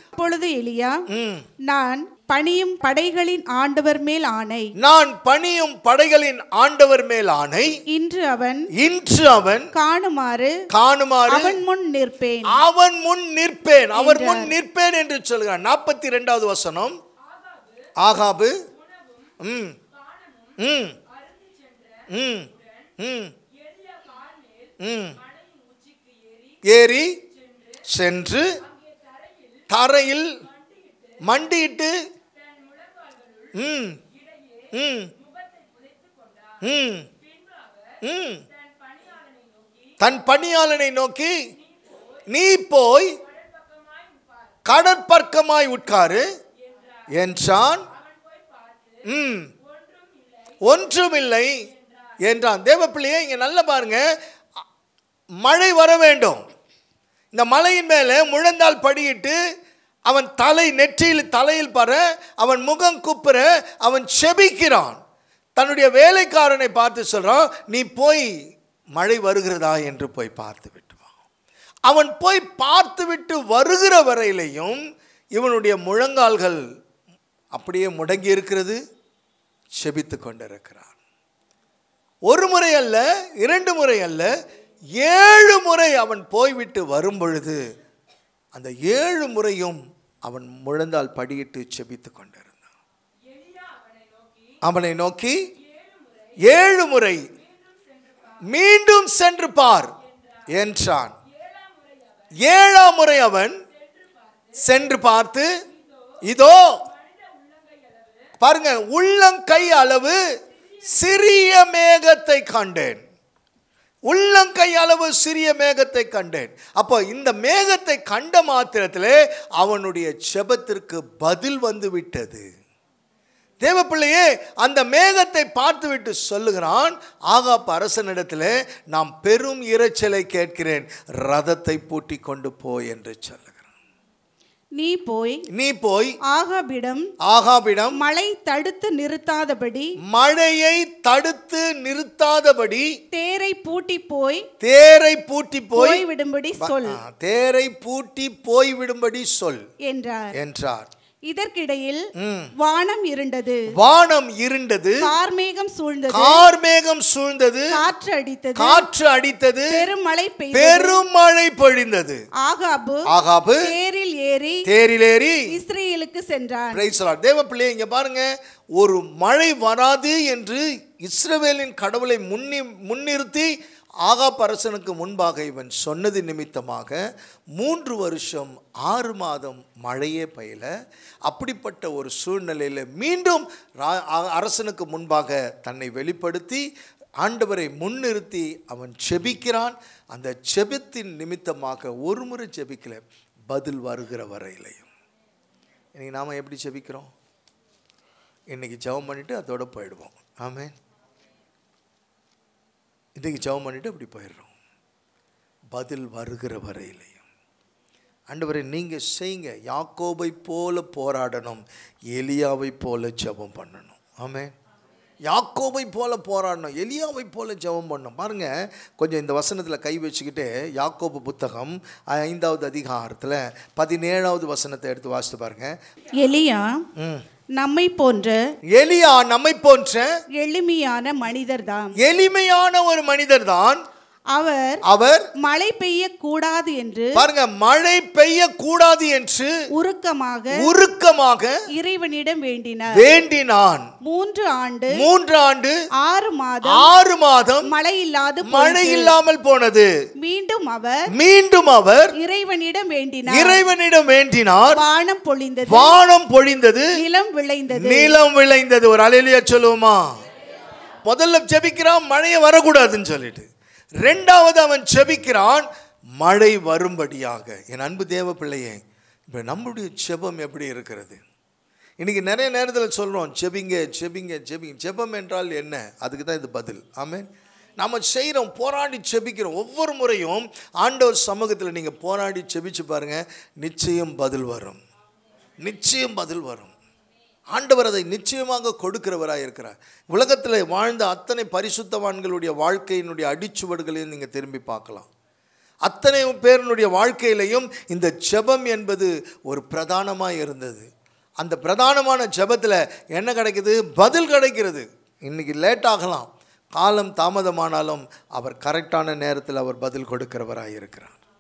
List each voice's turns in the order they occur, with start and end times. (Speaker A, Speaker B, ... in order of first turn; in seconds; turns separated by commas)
Speaker A: 0.1-1.0, Speaker B: 1.1-1.4, Speaker A: 1.6-4.7, Speaker B: 4.8-7.8, Speaker A: 7.9-8.7, Speaker B: 8.7-9.7, Speaker A: 9.7-10.6, Speaker B: 10.7-11.6, Speaker A: 11.3-12.5, Speaker B: 12.5-17.0, Speaker A: 13.9-14.5, Speaker B: 18.0-18.6, Speaker B: 19.4-19.8, Speaker B: 20.6-21.0, Speaker B: 22.1-23.3, Speaker B: 24.8-25.2, Speaker B: 26.6-27.2, Speaker B: 27.9-28.5, Speaker B: 29.7-30.4, Speaker B: 31.2-31.9, Speaker B: 33.5-34.0, Speaker B: 34.7-35.1, Speaker B: 36.6-37.1, Speaker B: 38.0-38.4, Speaker B: 40.0-41.4, Speaker B: 42.3-43.2, Speaker B: 44.6-46.2, Speaker B: 47.1-47.9, Speaker B: 49.0-49.5, Speaker B: 50.6-51.6, Speaker B: 52.2-54.1, Speaker B: 55.4-56.4, Speaker B: 57.3-59.4, Speaker B: 60.0-65.0, Speaker B: 65.6-68.3, Speaker B: 69.0-71.0, Speaker B: 71.9-74.8, Speaker B: 75.3-76.6, Speaker B: 77.5-78.8, Speaker B: 79.8-80.9, Speaker B: 82.3-84.3, Speaker B: 85.0-87.6, Speaker B: 88.5-92.7, Speaker B: 94.6-95.4, Speaker B: 96.4-97.2, Speaker B: 98.4-99.9, Speaker B: 100.5-101.1, Speaker B: 102.4-103.6, Speaker B: 104.5-105.5, Speaker B: 106.2-106.8, Speaker B: 108.4-110.2, Speaker B: 110.8-113.0, Speaker B: 114.0-122.5, Speaker B: 123.6-133.6, Speaker A: 134.8-135.4, Speaker B: 135.5-136.2, Speaker A: 136.3-137.1, Speaker B: 137.2-138.0, Speaker A: 137.9-139.9, Speaker B: 140.1-142.9, Speaker A: 143.1-144.4, Speaker B: 144.6-146.0, Speaker A: 145.8-147.0, Speaker B: 146.6-149.6, Speaker A: 149.8-150.3, Speaker B: 150.3-150.9, Speaker A: 151.3-152.1, Speaker B: 152.2-152.5, Speaker A: 152.6-153.7, Speaker B: 153.7-155.1, Speaker A: 155.0-156.4, Speaker B: 156.1-157.8, Speaker A: 157.7-158.8, Speaker B: 158.6-159.9, Speaker A: 159.7-161.0, Speaker B: 160.5-162.2, Speaker A: 162.4-163.0, Speaker B: 163.1-163.7, Speaker A: 163.6-164.6, Speaker B: 164.7-165.4, Speaker A: 165.5-166.8, Speaker B: 166.7-173.5, Speaker B: 174.0-177.0, Speaker B: 177.6-180.7, Speaker B: 181.2-186.7, Speaker B: 187.2-194.9, Speaker B: 195.9-197.1, Speaker B: 198.5-200.7, Speaker B: 203.2-204.5, Speaker B: 205.7-207.2, Speaker B: 208.3-214.5, Speaker B: 215.2-225.8, Speaker A: 226.2-226.8, Speaker B: 227.0-227.2, Speaker A: 227.6-228.4, Speaker B: 228.7-230.1, Speaker A: 230.3-231.9, Speaker B: 232.0-233.8, Speaker A: 234.3-234.8, Speaker B: 234.8-235.3, Speaker A: 235.4-237.2, Speaker B: 237.1-239.5, Speaker A: 239.7-240.7, Speaker B: 240.5-241.6, Speaker A: 241.7-243.1, Speaker B: 242.9-243.9, Speaker A: 244.0-245.0, Speaker B: 244.9-245.8, Speaker A: 246.0-246.9, Speaker B: 246.7-247.7, Speaker A: 247.7-249.1, Speaker B: 248.4-249.9, Speaker A: 250.2-251.0, Speaker B: 251.1-252.1, Speaker A: 252.2-253.6, Speaker B: 253.3-254.8, Speaker A: 254.7-255.9, Speaker B: 255.7-257.0, Speaker A: 256.9-258.1, Speaker B: 257.8-260.1, Speaker B: 261.1-263.4, Speaker B: 264.0-265.6, Speaker B: 266.2-271.2, Speaker B: 272.0-277.3, Speaker B: 277.8-284.8, Speaker B: 285.6-286.7, Speaker B: 287.5-295.1, Speaker B: 295.9-300.9, Speaker B: 301.4-311.2